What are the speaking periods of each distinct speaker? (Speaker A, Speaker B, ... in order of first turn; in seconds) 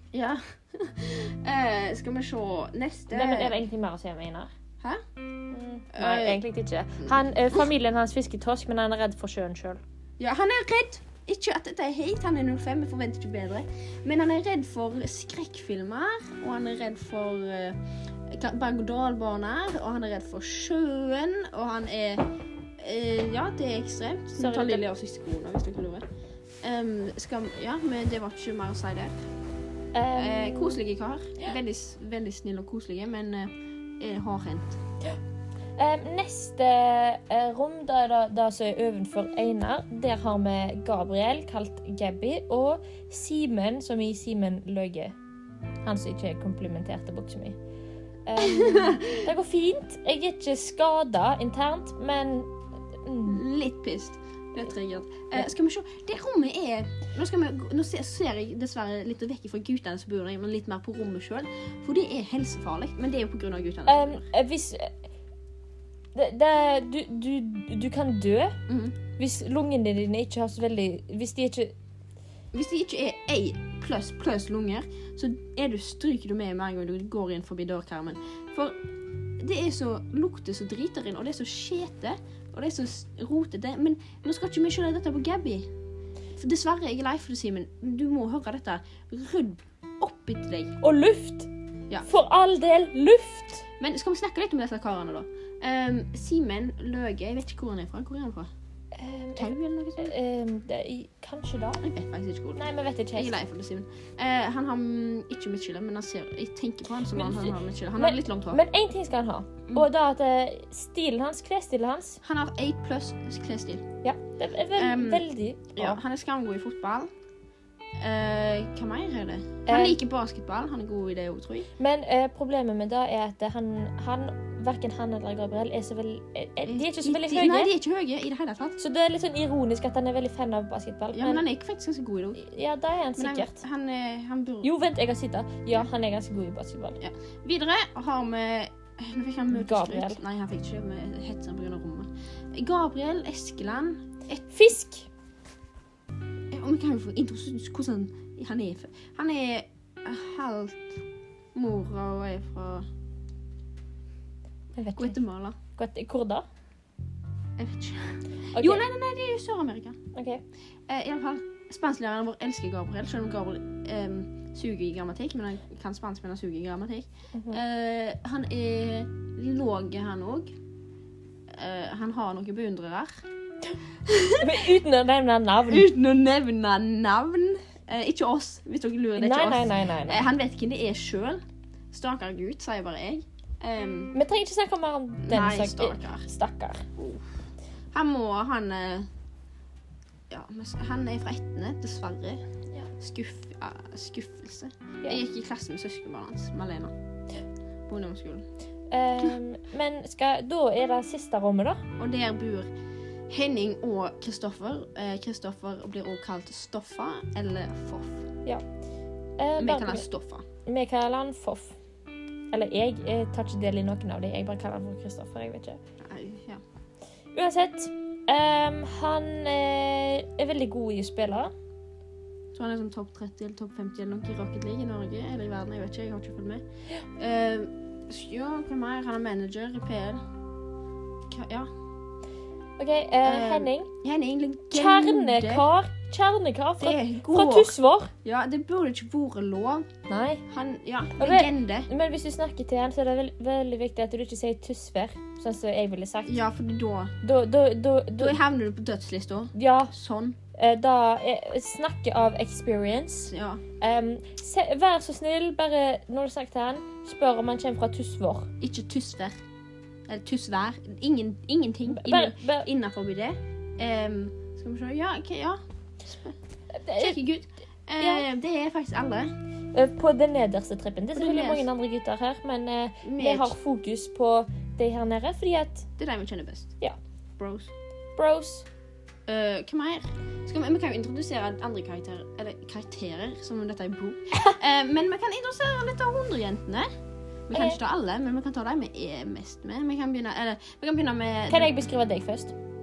Speaker A: 0.1-3.6, 5.9-6.4, 7.1-7.6, 10.2-17.8, 18.3-26.0, 26.6-29.1, 30.1-34.8, 48.4-49.2, 53.2-64.2, 68.7-69.0, 72.5-78.8, 79.4-85.7, 86.3-90.7, 93.8-98.5, 99.3-100.1, 101.8-102.6, 103.1-108.6, 112.2-113.8, 114.8-115.2, 115.8-117.1, 118.0-121.7, 126.7-128.8, 131.1-132.4, 133.2-134.7, 137.0-144.5, 146.5-150.9, 151.5-152.8, 155.0-155.6, 157.6-160.0, 160.9-170.5, 171.5-173.2, 174.1-174.4, 175.7-181.4, 181.9-184.1, 185.2-186.2, 187.0-187.3, 187.9-189.1, 190.3-192.4, 193.0-196.9, 197.9-198.4, 202.0-202.7, 203.3-208.2, 209.6-210.4, 216.0-216.6, 222.5-226.6, 227.2-230.2, 231.3-231.7, 233.2-235.7, 236.8-237.7, 238.2-239.8, 240.5-241.9, 246.2-247.1, 248.2-250.4, 253.3-253.6, 258.6-259.4, 260.1-266.3, 267.0-269.3, 271.1-271.7, 273.0-273.6, 276.0-276.7, 277.4-277.7, 279.3-286.9, 287.5-291.9
Speaker B: 3.1-4.5, 5.5-9.8, 24.4-24.8, 29.9-30.8, 35.8-45.1, 45.8-47.6, 48.2-52.5, 53.0-53.4, 63.9-64.9, 66.1-68.6, 69.2-71.7, 90.8-91.5, 92.0-93.6, 99.0-101.8, 102.5-103.3, 107.1-112.2, 114.0-116.0, 119.7-120.0, 121.8-127.7, 128.8-131.4, 132.4-133.6, 134.6-137.0, 139.5-140.2, 144.5-145.1, 154.8-155.2, 155.8-156.5, 158.5-158.8, 160.1-160.4, 167.3-167.6, 174.4-175.9, 179.2-180.2, 184.1-186.8, 198.9-201.8, 209.4-210.0, 210.7-211.7, 212.5-215.8, 217.3-221.5, 232.8-233.9, 234.7-238.1, 240.1-240.4, 241.2-246.3, 247.2-248.3, 249.5-249.9, 250.6-258.5, 261.9-262.7, 266.8-267.1, 268.0-268.2, 269.7-275.9, 278.1-278.6, 287.5-287.8, 291.5-292.5